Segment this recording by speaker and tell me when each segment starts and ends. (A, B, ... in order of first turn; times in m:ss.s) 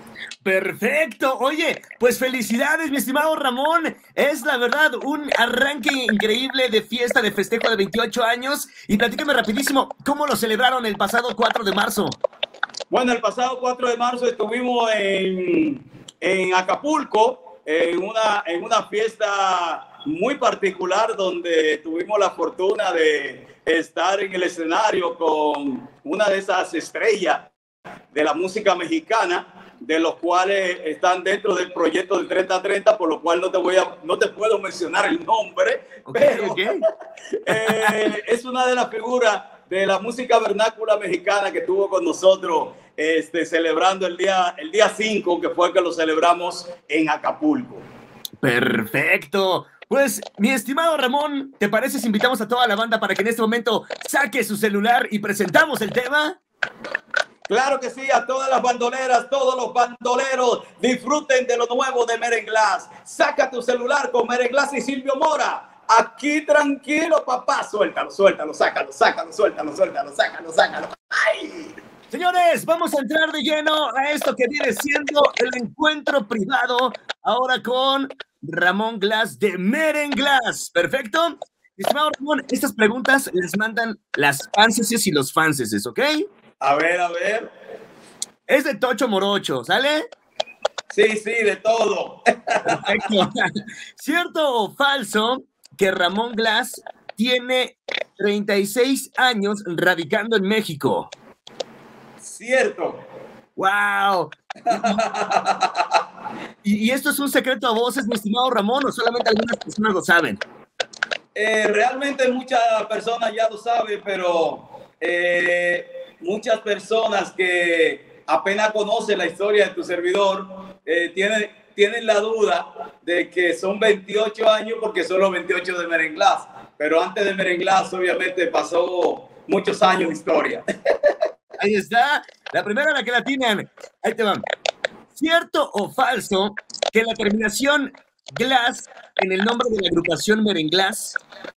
0:00.4-0:12.2 A
0:12.9-0:27.5 B
0:28.1-0:36.8 B
0:36.1-0:36.8 A
0:37.4-0:47.8 B
0:37.5-0:38.1 A
0:48.4-0:56.4 A
0:57.5-1:11.7 B
1:12.1-1:26.2 A
1:26.6-1:27.5 B
1:28.5-1:30.1 A
1:30.9-1:33.0 B
1:32.7-1:33.4 A
1:34.0-1:41.1 A
1:42.2-1:43.0 B
1:43.6-1:45.0 A
1:44.7-1:46.0 B
1:46.6-1:50.4 A
1:51.3-2:11.1 B
2:11.6-2:14.4 A
2:15.1-2:21.2 A